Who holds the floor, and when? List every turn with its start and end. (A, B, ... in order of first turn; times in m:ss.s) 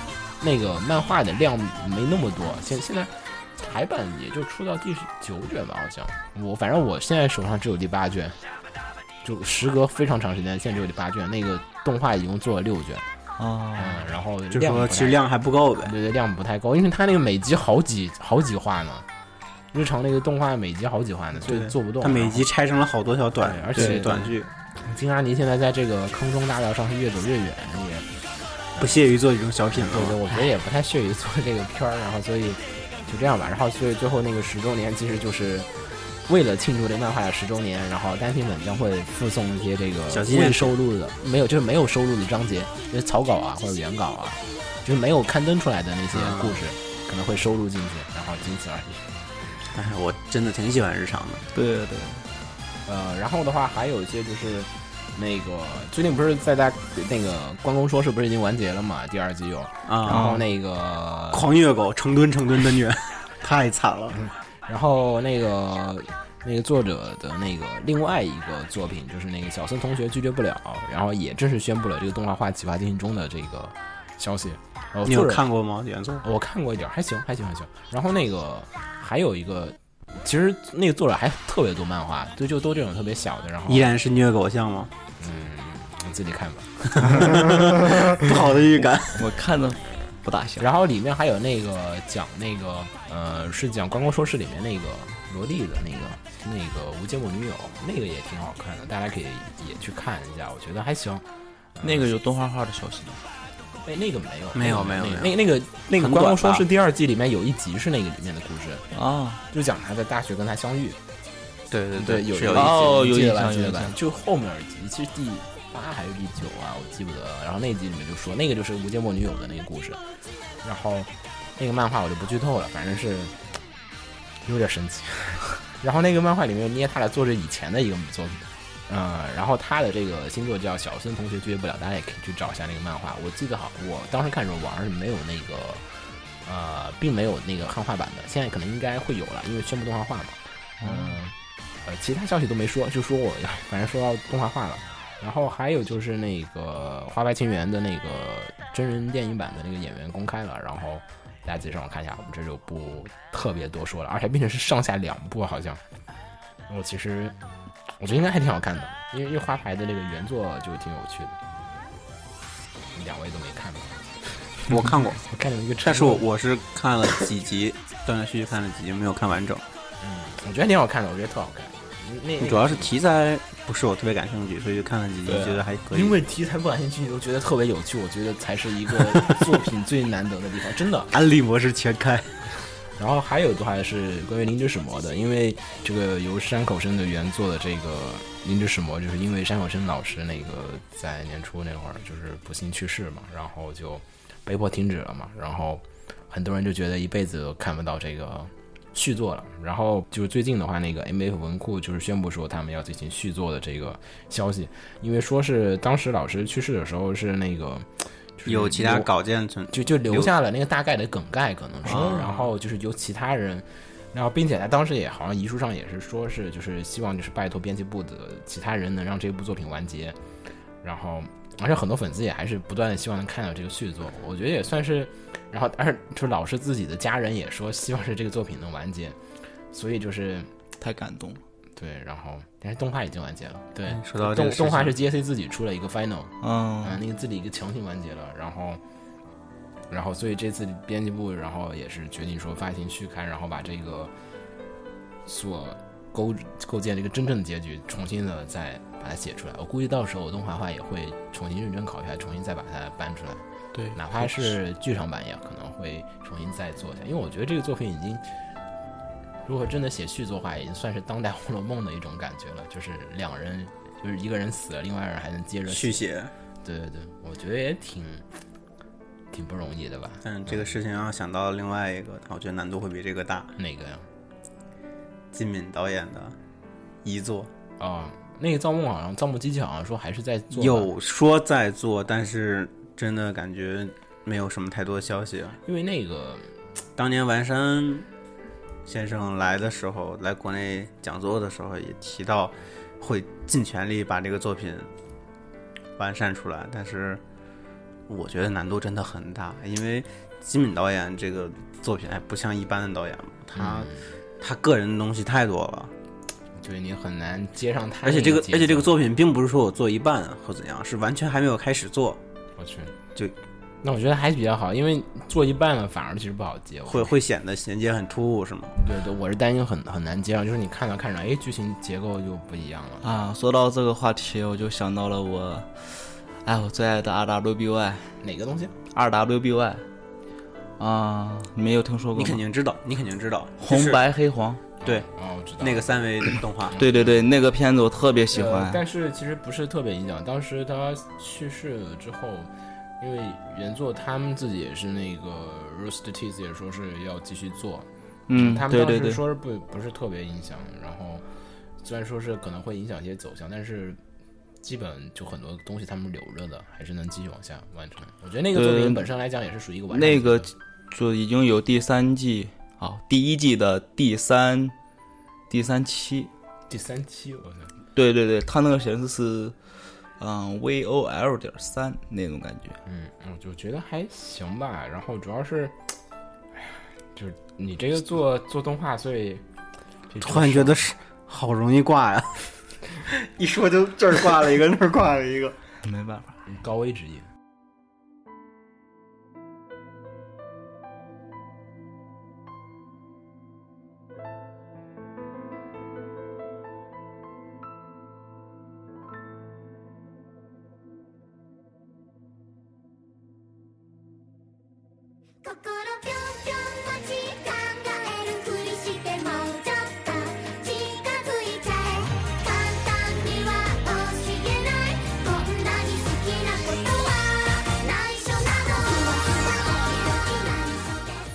0:00.4-0:08.4 A
0:09.2-0:13.0 A
0:13.4-0:14.0 B
0:13.8-0:15.2 A
0:14.5-0:15.9 C
0:15.8-0:19.1 A
0:19.7-0:22.4 A
0:21.4-0:24.5 C
0:23.4-0:24.3 A
0:24.8-0:28.1 A
0:28.8-0:30.2 C
0:29.7-0:35.7 A
0:36.3-0:49.1 A
0:40.1-0:40.7 C
0:46.1-0:46.7 C
0:49.7-0:51.4 C
0:51.5-0:52.2 B
0:52.8-1:01.4 A
0:59.8-1:00.3 C
1:00.1-1:00.4 B
1:01.3-1:04.2 C
1:04.1-1:15.4 A
1:15.0-1:16.2 C
1:16.2-1:23.9 A
1:23.7-1:24.9 C
1:25.2-1:28.2 A
1:27.0-1:29.2 C
1:29.2-1:30.6 B
1:30.6-1:41.2 A
1:41.8-1:42.1 A
1:41.8-1:43.2 B
1:43.8-1:48.8 A
1:44.5-1:45.4 C
1:45.9-1:46.6 C
1:48.9-1:49.4 B
1:49.5-1:51.0 A
1:51.7-1:52.8 C
1:52.0-2:00.0 A
1:52.5-1:53.9 B
2:00.6-2:03.3 A
2:04.4-2:15.9 A
2:16.4-2:35.8 A
2:20.8-2:21.1 B
2:36.7-2:37.3 A
2:38.0-2:41.4 A
2:42.9-2:46.2 A
2:44.7-2:45.2 C
2:45.8-2:49.6 C
2:50.0-2:52.9 A
2:52.4-2:56.2 C
2:55.3-2:55.6 B
2:55.9-3:01.1 A
3:01.1-3:02.3 C
3:03.0-3:29.1 A
3:28.4-3:30.3 C
3:29.7-3:40.2 A
3:31.8-3:32.5 B
3:31.9-3:32.2 C
3:40.8-3:49.2 A
3:49.7-3:50.5 A
3:50.8-3:51.4 B
3:51.8-3:58.8 A
3:53.9-3:54.9 C
3:56.4-3:57.0 B
3:59.9-4:04.1 A
4:05.2-4:13.4 A
4:13.7-4:14.6 B
4:13.9-4:18.2 A
4:19.4-4:26.0 A
4:25.7-4:26.3 C
4:26.6-4:28.2 A
4:29.3-4:30.7 A
4:30.2-4:33.5 C
4:33.6-4:34.0 A
4:35.3-4:36.4 C
4:37.0-4:37.5 C
4:37.8-4:40.9 A
4:40.5-4:45.6 C
4:45.6-4:46.5 A
4:47.0-4:48.1 C
4:48.8-4:54.9 C
4:56.0-4:57.2 C
4:58.1-5:05.9 C
5:03.5-5:04.0 A
5:06.6-5:08.9 A
5:08.0-5:12.2 C
5:12.6-5:12.9 A
5:13.8-5:17.2 A
5:16.9-5:18.7 C
5:18.8-5:23.1 A
5:23.0-5:28.2 B
5:28.2-5:28.7 A
5:28.9-5:29.8 B
5:30.8-5:32.4 B
5:32.1-5:34.0 C
5:33.6-5:34.6 B
5:34.8-5:35.1 C
5:34.8-5:36.0 A
5:35.6-5:36.8 C
5:36.7-5:37.2 A
5:36.8-5:38.8 B
5:38.3-5:51.2 A
5:48.3-5:49.2 B
5:51.8-5:54.0 A
5:54.6-6:00.5 A
5:58.5-5:59.0 B
5:59.9-6:04.7 B
6:05.5-6:06.3 B
6:06.7-6:07.7 A
6:07.9-6:09.6 B
6:10.2-6:12.8 B
6:12.8-6:15.8 A
6:16.6-6:19.4 A
6:20.2-6:20.7 A
6:20.2-6:22.4 C
6:23.0-6:25.6 C
6:25.8-6:26.4 B
6:26.5-6:27.2 A
6:45.4-7:01.2 D